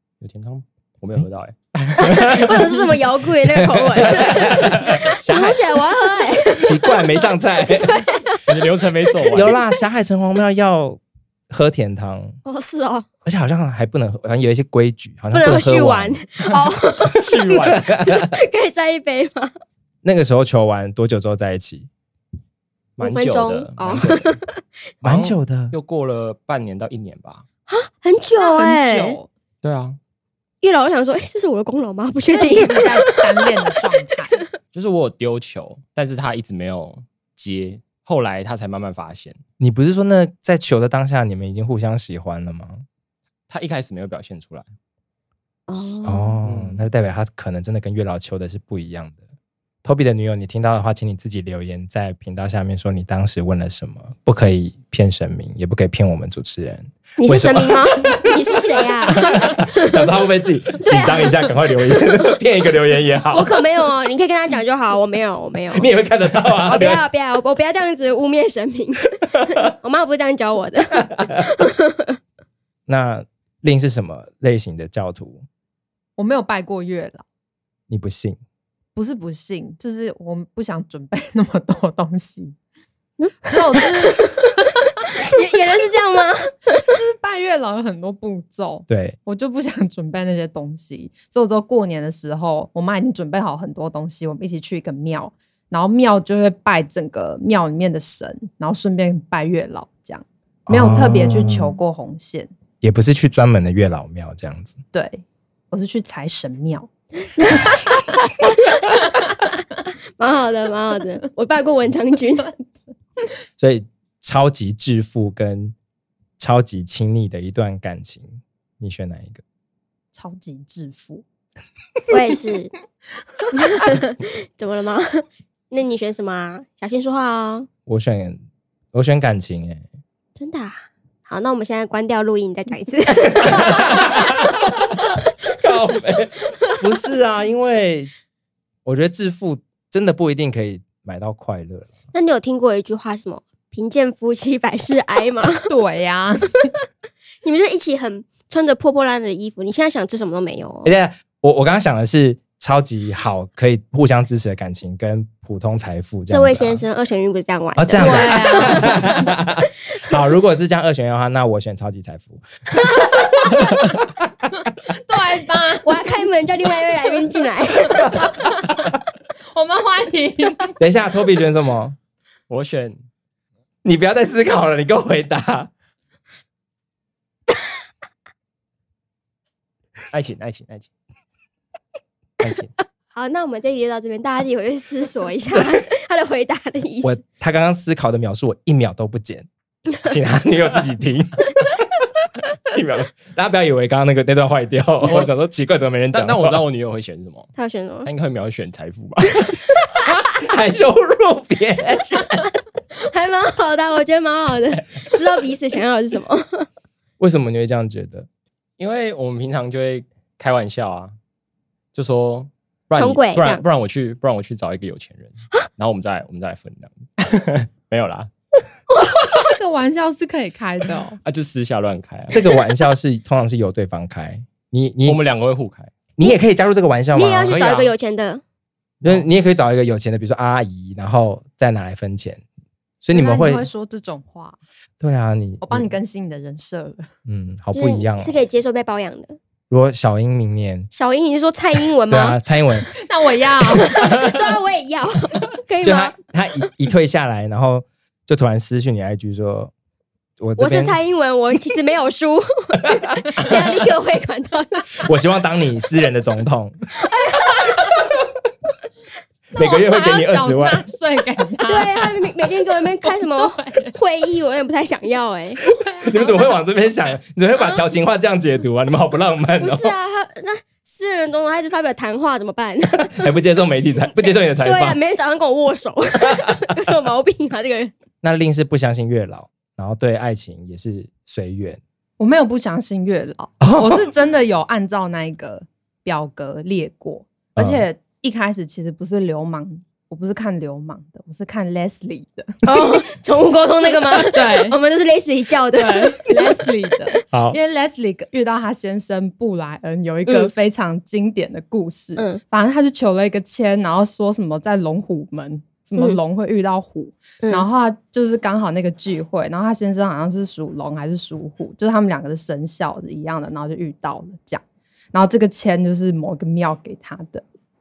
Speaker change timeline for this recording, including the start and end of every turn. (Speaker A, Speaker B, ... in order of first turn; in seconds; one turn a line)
Speaker A: 0.2-2.6
Speaker B: 2.0-2.8
Speaker C: 2.0-9.7
Speaker B: 3.4-5.6
Speaker A: 4.3-4.6
Speaker B: 6.5-8.0
Speaker A: 8.5-9.5
Speaker B: 9.3-12.4
Speaker C: 12.4-13.1
Speaker B: 13.2-16.6
Speaker C: 15.3-17.2
Speaker A: 17.2-17.9
Speaker B: 17.5-18.4
Speaker C: 18.0-19.5
Speaker B: 20.0-21.9
Speaker A: 23.0-24.4
Speaker C: 23.0-24.6
Speaker B: 25.0-25.8
Speaker A: 25.0-27.5
Speaker C: 27.7-29.2
Speaker D: 28.4-29.3
Speaker A: 29.6-30.0
Speaker C: 30.6-33.5
Speaker D: 32.3-34.4
Speaker A: 34.7-39.4
Speaker B: 39.6-42.8
Speaker A: 43.5-44.7
Speaker C: 45.7-46.4
Speaker B: 46.0-49.2
Speaker A: 46.4-46.9
Speaker B: 49.8-63.6
Speaker C: 57.2-60.1
Speaker C: 60.8-61.4
Speaker C: 63.3-65.9
Speaker B: 65.7-67.0
Speaker C: 66.7-72.2
Speaker B: 71.0-71.5
Speaker B: 72.9-75.4
Speaker D: 76.2-77.2
Speaker B: 77.9-78.4
Speaker D: 79.0-82.6
Speaker C: 83.2-86.9
Speaker D: 83.5-84.4
Speaker D: 86.9-102.5
Speaker B: 88.9-89.2
Speaker B: 100.7-101.8
Speaker B: 102.8-104.8
Speaker D: 104.9-106.9
Speaker C: 107.3-109.0
Speaker D: 107.5-107.8
Speaker C: 110.2-112.5
Speaker B: 113.6-115.8
Speaker B: 116.4-119.4
Speaker D: 120.1-121.2
Speaker C: 122.1-122.7
Speaker C: 123.5-127.7
Speaker B: 127.9-128.4
Speaker B: 128.9-129.9
Speaker C: 130.4-134.6
Speaker B: 133.4-134.6
Speaker B: 135.6-138.1
Speaker B: 138.8-141.9
Speaker C: 142.1-145.7
Speaker D: 145.7-146.7
Speaker C: 147.4-150.9
Speaker B: 150.8-156.8
Speaker C: 156.3-159.1
Speaker B: 157.8-164.0
Speaker D: 158.0-159.2
Speaker D: 164.9-166.2
Speaker C: 165.8-168.3
Speaker D: 168.0-168.8
Speaker D: 169.5-170.8
Speaker B: 170.8-172.0
Speaker A: 172.5-173.0
Speaker B: 173.8-175.7
Speaker A: 180.1-180.9
Speaker A: 182.4-182.7
Speaker C: 183.1-187.2
Speaker B: 187.0-189.5
Speaker B: 190.0-191.7
Speaker B: 192.7-196.6
Speaker A: 195.0-195.3
Speaker A: 196.1-197.5
Speaker C: 197.6-198.1
Speaker A: 198.1-199.6
Speaker B: 200.1-202.5
Speaker C: 203.0-206.7
Speaker B: 207.2-208.3
Speaker A: 208.8-211.1
Speaker A: 211.9-218.3
Speaker C: 212.9-213.6
Speaker C: 218.9-219.5
Speaker D: 219.2-221.2
Speaker A: 221.2-222.4
Speaker B: 222.3-225.2
Speaker A: 225.1-225.9
Speaker B: 226.2-227.6
Speaker C: 227.1-228.4
Speaker A: 227.5-227.9
Speaker B: 229.0-232.4
Speaker B: 233.0-233.7
Speaker D: 233.1-234.6
Speaker B: 235.0-235.9
Speaker D: 235.6-237.1
Speaker B: 237.3-238.3
Speaker C: 237.7-239.4
Speaker B: 239.7-240.9
Speaker C: 240.9-242.4
Speaker B: 242.1-242.9
Speaker D: 242.9-244.3
Speaker C: 243.7-246.2
Speaker B: 245.8-249.7
Speaker B: 250.4-251.0
Speaker C: 250.6-255.1
Speaker B: 255.0-256.8
Speaker C: 257.1-257.7
Speaker D: 259.6-262.2
Speaker B: 259.6-260.8
Speaker C: 261.6-265.7
Speaker D: 263.0-263.9
Speaker B: 265.8-269.9
Speaker C: 269.6-273.3
Speaker B: 273.1-275.0
Speaker C: 274.2-277.9
Speaker B: 278.2-281.8
Speaker D: 282.2-293.1
Speaker B: 283.6-284.1
Speaker B: 287.6-287.9
Speaker C: 292.6-297.2
Speaker D: 294.0-294.8
Speaker D: 295.7-314.6
Speaker B: 297.3-297.6
Speaker C: 307.4-307.7
Speaker D: 315.1-317.4